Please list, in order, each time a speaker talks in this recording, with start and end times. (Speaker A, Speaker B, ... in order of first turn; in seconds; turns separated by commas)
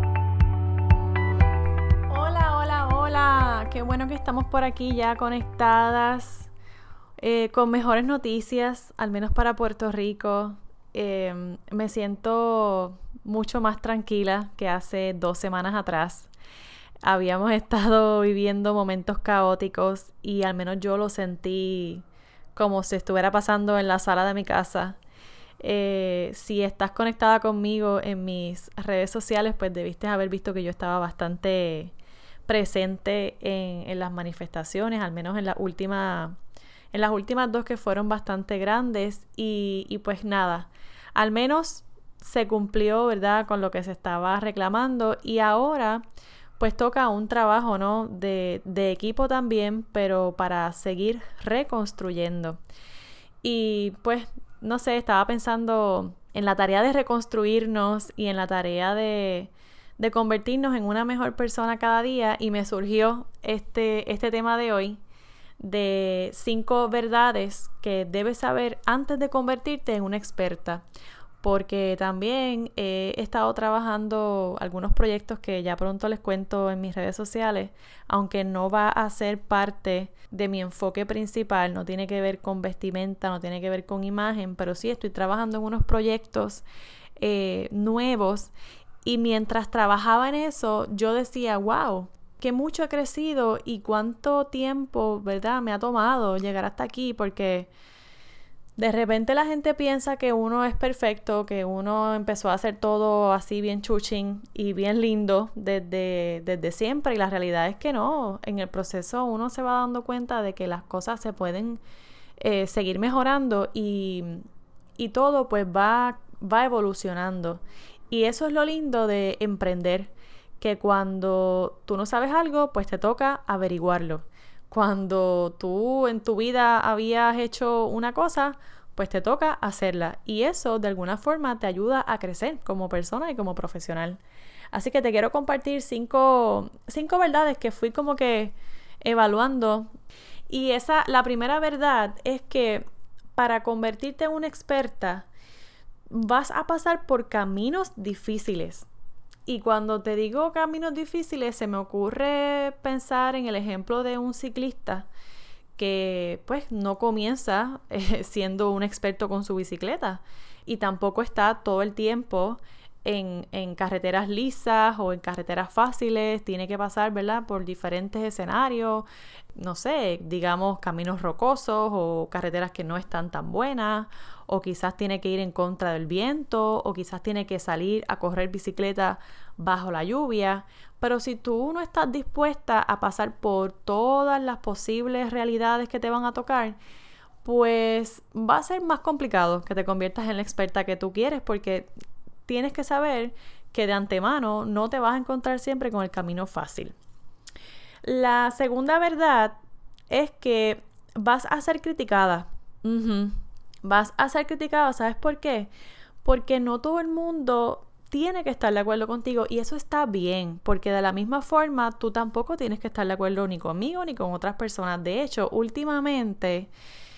Speaker A: 2.1-6.5, Speaker A: 7.2-16.3, Speaker A: 17.0-22.0, Speaker A: 22.5-25.0, Speaker A: 25.6-31.9, Speaker A: 32.5-36.4, Speaker A: 36.9-46.0, Speaker A: 46.6-52.6, Speaker A: 53.4-65.0, Speaker A: 65.6-70.8, Speaker A: 71.4-86.6, Speaker A: 87.2-88.5, Speaker A: 89.0-97.7, Speaker A: 98.8-111.8, Speaker A: 112.4-114.5, Speaker A: 115.0-134.2, Speaker A: 134.7-139.9, Speaker A: 140.5-145.3, Speaker A: 146.1-148.9, Speaker A: 149.4-155.1, Speaker A: 155.8-186.8, Speaker A: 187.4-191.9, Speaker A: 192.4-196.9, Speaker A: 198.0-199.6, Speaker A: 200.1-205.7, Speaker A: 206.2-216.7